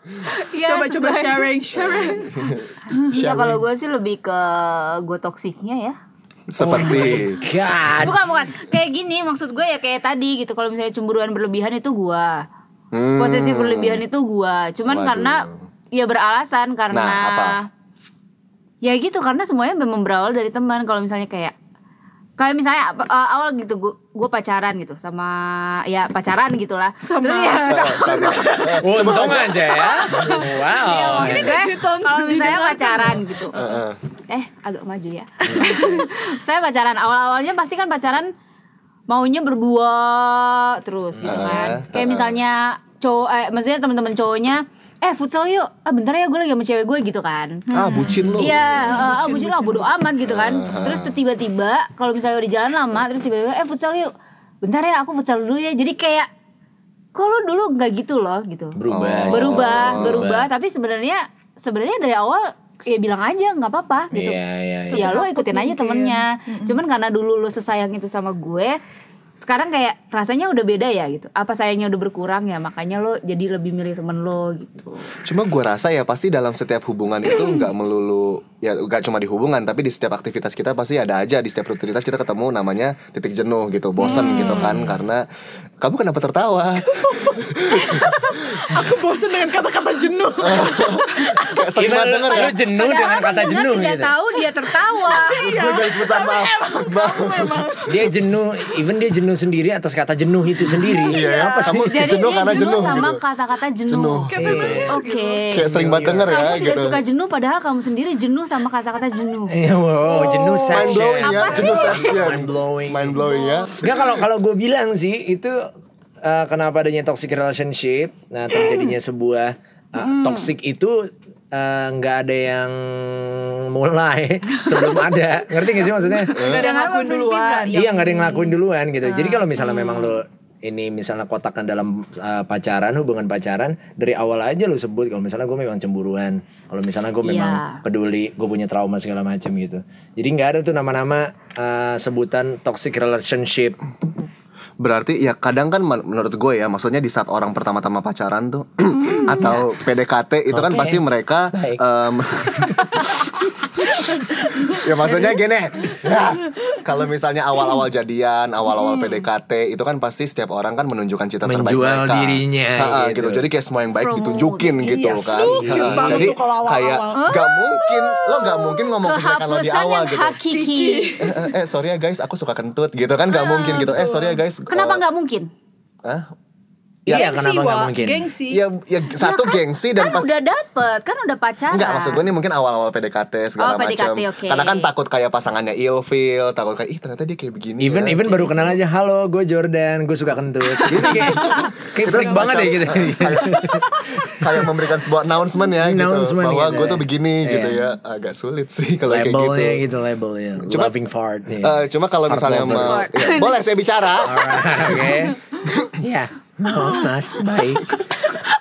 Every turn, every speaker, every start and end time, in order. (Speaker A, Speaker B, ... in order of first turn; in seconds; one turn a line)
Speaker A: 0.2-6.0
Speaker B: 0.6-2.9
Speaker C: 2.1-2.5
Speaker C: 3.1-3.6
Speaker C: 6.5-7.5
Speaker D: 6.6-8.2
Speaker A: 8.0-12.4
Speaker C: 12.9-14.0
Speaker A: 13.2-17.7
Speaker C: 14.8-15.7
Speaker C: 16.9-17.6
Speaker A: 18.8-21.5
Speaker A: 22.4-28.4
Speaker B: 27.0-33.7
Speaker C: 27.7-29.6
Speaker D: 28.8-31.5
Speaker A: 30.1-33.6
Speaker C: 33.5-34.0
Speaker A: 34.3-38.3
Speaker D: 35.4-36.0
Speaker A: 39.1-47.6
Speaker D: 41.2-41.8
Speaker C: 41.2-42.4
Speaker B: 47.7-48.4
Speaker C: 47.7-49.2
Speaker D: 48.0-48.6
Speaker A: 48.4-54.1
Speaker B: 48.9-49.9
Speaker C: 50.2-51.2
Speaker A: 54.6-56.3
Speaker A: 57.1-58.8
Speaker D: 58.8-60.5
Speaker C: 58.9-60.3
Speaker A: 59.3-64.4
Speaker D: 64.1-65.2
Speaker B: 64.9-66.8
Speaker A: 64.9-68.8
Speaker A: 69.4-75.1
Speaker C: 75.2-85.2
Speaker A: 84.0-84.7
Speaker B: 84.1-84.4
Speaker D: 84.5-84.9
Speaker C: 85.8-88.8
Speaker B: 86.9-91.6
Speaker C: 90.4-92.5
Speaker D: 91.8-94.1
Speaker A: 92.5-95.5
Speaker B: 95.1-98.1
Speaker C: 95.3-97.7
Speaker D: 97.9-101.9
Speaker C: 101.1-103.2
Speaker B: 101.1-101.5
Speaker A: 101.2-104.3
Speaker C: 103.9-104.8
Speaker B: 104.3-105.5
Speaker D: 104.4-105.0
Speaker A: 104.9-109.6
Speaker C: 105.5-107.0
Speaker D: 105.7-106.4
Speaker D: 109.5-113.3
Speaker B: 110.1-110.6
Speaker A: 110.2-112.2
Speaker C: 110.7-114.1
Speaker B: 113.3-113.7
Speaker D: 113.8-115.6
Speaker D: 116.2-126.4
Speaker A: 120.0-120.5
Speaker C: 126.3-126.7
Speaker B: 126.3-127.8
Speaker A: 126.4-128.6
Speaker D: 127.7-143.8
Speaker A: 129.1-130.2
Speaker A: 137.2-137.8
Speaker C: 144.8-170.4
Speaker A: 149.2-149.6
Speaker D: 150.5-151.8
Speaker A: 158.8-159.2
Speaker D: 161.4-163.4
Speaker A: 164.0-165.3
Speaker D: 165.0-166.3
Speaker B: 165.3-167.4
Speaker A: 167.1-171.3
Speaker B: 170.5-171.5
Speaker C: 171.2-175.0
Speaker B: 173.3-174.4
Speaker A: 174.7-175.5
Speaker C: 177.1-177.3
Speaker D: 177.1-178.3
Speaker B: 177.1-178.6
Speaker C: 178.5-180.3
Speaker A: 179.1-182.3
Speaker C: 181.7-188.8
Speaker A: 183.6-184.9
Speaker D: 187.8-194.8
Speaker C: 191.0-199.8
Speaker D: 195.8-197.8
Speaker D: 199.1-203.1
Speaker C: 200.6-200.9
Speaker C: 201.6-205.1
Speaker B: 202.9-203.6
Speaker D: 204.2-205.4
Speaker B: 204.9-205.3
Speaker C: 205.7-205.9
Speaker D: 206.0-208.0